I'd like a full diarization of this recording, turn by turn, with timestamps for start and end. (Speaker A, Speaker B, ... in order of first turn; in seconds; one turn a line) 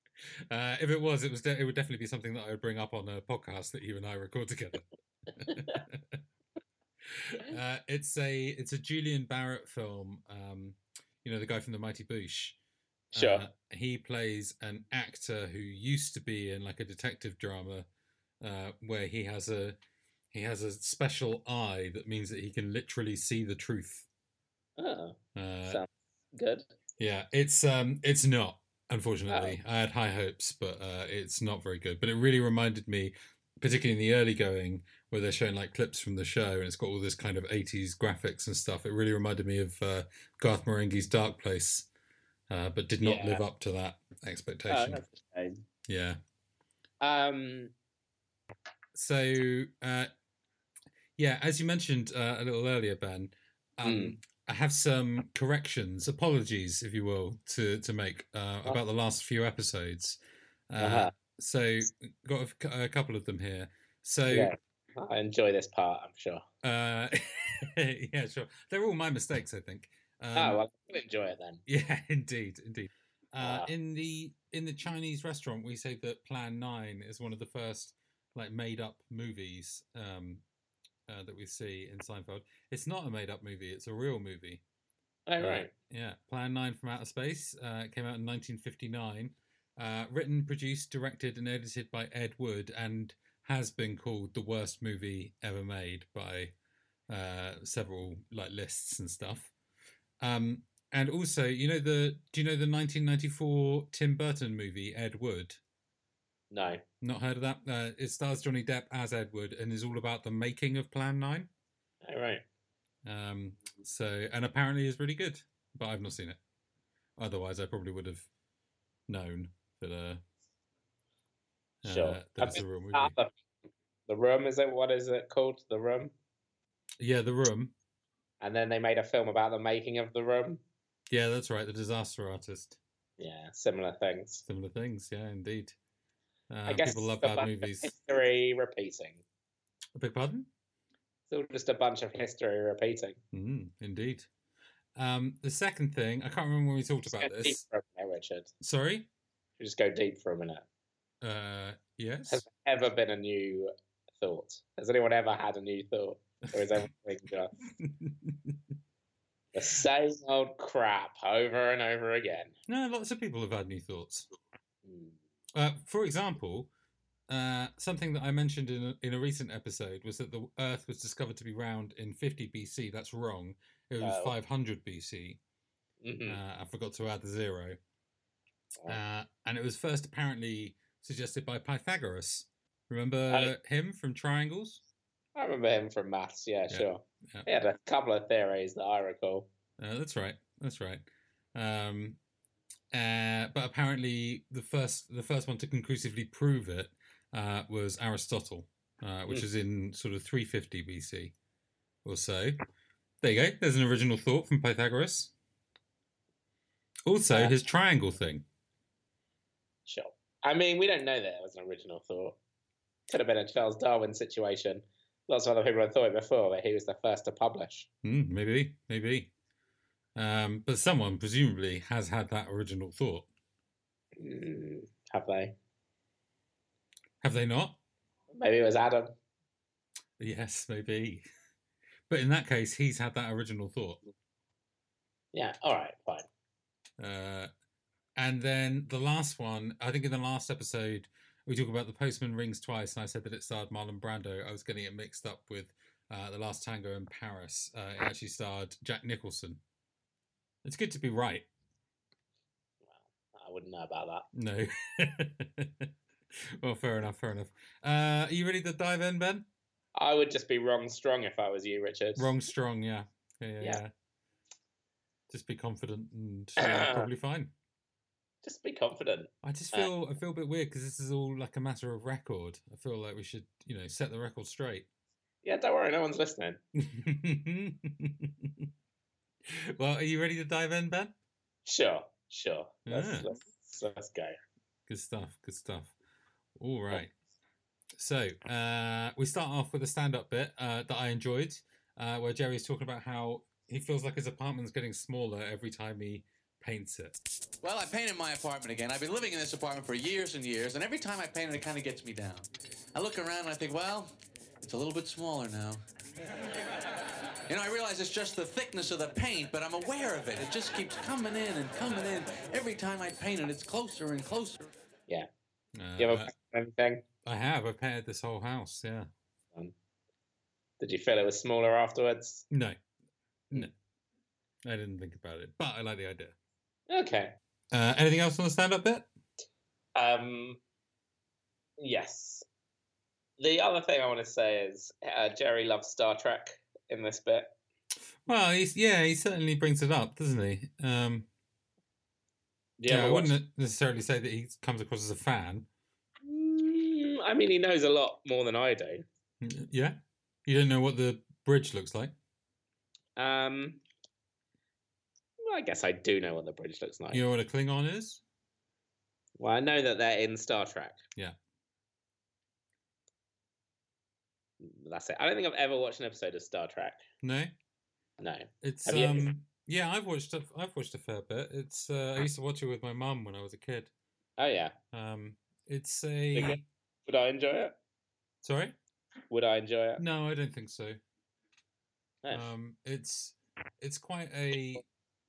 Speaker A: 0.5-6.2
Speaker A: 7.1-12.6
Speaker B: 13.1-13.5
Speaker A: 13.1-17.9
Speaker A: 18.4-19.8
Speaker A: 20.3-24.1
Speaker B: 24.8-26.7
Speaker A: 25.3-25.8
Speaker A: 27.0-41.9
Speaker B: 29.3-29.6
Speaker A: 42.5-45.0
Speaker B: 43.0-43.4
Speaker B: 44.7-45.6
Speaker A: 45.9-46.2
Speaker B: 47.0-47.7
Speaker A: 48.9-50.1
Speaker A: 51.2-60.2
Speaker B: 53.8-54.2
Speaker A: 60.7-64.5
Speaker B: 60.8-61.1
Speaker B: 64.3-66.4
Speaker A: 66.6-70.6
Speaker B: 70.3-71.6
Speaker A: 71.7-80.4
Speaker B: 73.4-73.7
Speaker A: 81.1-84.6
Speaker B: 85.3-85.7
Speaker A: 85.4-96.5
Speaker A: 97.1-99.5
Speaker A: 100.2-105.6
Speaker B: 106.5-106.8
Speaker A: 107.0-111.5
Speaker B: 112.0-112.4
Speaker A: 113.0-116.4
Speaker A: 117.2-118.3
Speaker A: 119.1-120.2
Speaker A: 121.8-123.1
Speaker B: 121.8-123.3
Speaker B: 124.1-126.1
Speaker A: 127.0-127.7
Speaker B: 128.4-130.6
Speaker A: 131.1-132.8
Speaker B: 133.2-134.4
Speaker A: 134.4-135.8
Speaker A: 136.5-137.9
Speaker B: 136.7-139.2
Speaker A: 139.9-140.5
Speaker B: 141.3-143.2
Speaker A: 143.3-144.3
Speaker A: 144.9-147.6
Speaker B: 147.1-148.5
Speaker A: 148.6-149.1
Speaker B: 149.6-150.6
Speaker A: 151.2-152.4
Speaker B: 152.3-157.5
Speaker A: 157.8-158.6
Speaker B: 159.5-162.5
Speaker A: 162.7-164.3
Speaker B: 164.8-165.2
Speaker A: 165.5-166.7
Speaker A: 167.3-175.4
Speaker B: 174.0-174.3
Speaker B: 176.0-176.4
Speaker A: 176.3-177.8
Speaker A: 178.9-184.8
Speaker B: 185.3-189.5
Speaker A: 186.7-187.5
Speaker A: 189.8-192.2
Speaker A: 192.9-201.3
Speaker A: 202.0-202.6
Speaker A: 203.2-205.3
Speaker A: 207.1-208.4
Speaker B: 209.8-212.4
Speaker B: 213.1-217.9
Speaker A: 218.0-219.3
Speaker A: 220.2-223.3
Speaker B: 224.2-225.5
Speaker A: 227.2-227.8
Speaker B: 228.3-229.1
Speaker A: 230.2-231.2
Speaker A: 232.1-234.0
Speaker B: 235.3-236.3
Speaker A: 237.0-237.5
Speaker A: 238.2-249.6
Speaker A: 250.6-251.4
Speaker B: 252.8-254.2
Speaker A: 254.3-255.9
Speaker A: 256.6-259.4
Speaker B: 259.9-262.3
Speaker A: 262.1-263.9
Speaker A: 265.3-267.5
Speaker B: 266.6-267.1
Speaker B: 268.4-269.9
Speaker A: 269.4-274.9
Speaker B: 275.4-276.6
Speaker A: 276.8-278.7
Speaker A: 279.5-281.1
Speaker B: 281.6-284.4
Speaker A: 282.9-283.3
Speaker A: 284.9-285.9
Speaker A: 286.6-287.1
Speaker A: 288.0-297.2
Speaker C: 297.6-305.8
Speaker C: 307.5-314.6
Speaker A: 315.7-316.3
Speaker B: 316.0-317.0
Speaker A: 317.2-319.1
Speaker B: 320.8-322.4
Speaker A: 322.5-322.8
Speaker A: 324.6-326.3
Speaker B: 326.9-327.3
Speaker A: 327.7-329.1
Speaker B: 329.9-330.6
Speaker B: 331.8-332.4
Speaker B: 333.4-337.5
Speaker A: 338.2-341.3
Speaker B: 342.8-343.3
Speaker A: 342.9-345.7
Speaker B: 346.2-349.0
Speaker A: 349.4-352.1
Speaker B: 353.1-353.8
Speaker B: 355.4-357.2
Speaker A: 357.1-358.2
Speaker B: 359.4-361.0
Speaker B: 364.6-367.0
Speaker A: 367.2-367.5
Speaker B: 368.2-369.3
Speaker A: 368.6-373.9
Speaker B: 374.4-374.8
Speaker A: 374.9-376.6
Speaker B: 376.3-377.7
Speaker A: 378.4-378.8
Speaker B: 379.3-380.0
Speaker A: 380.0-381.0
Speaker A: 382.3-384.8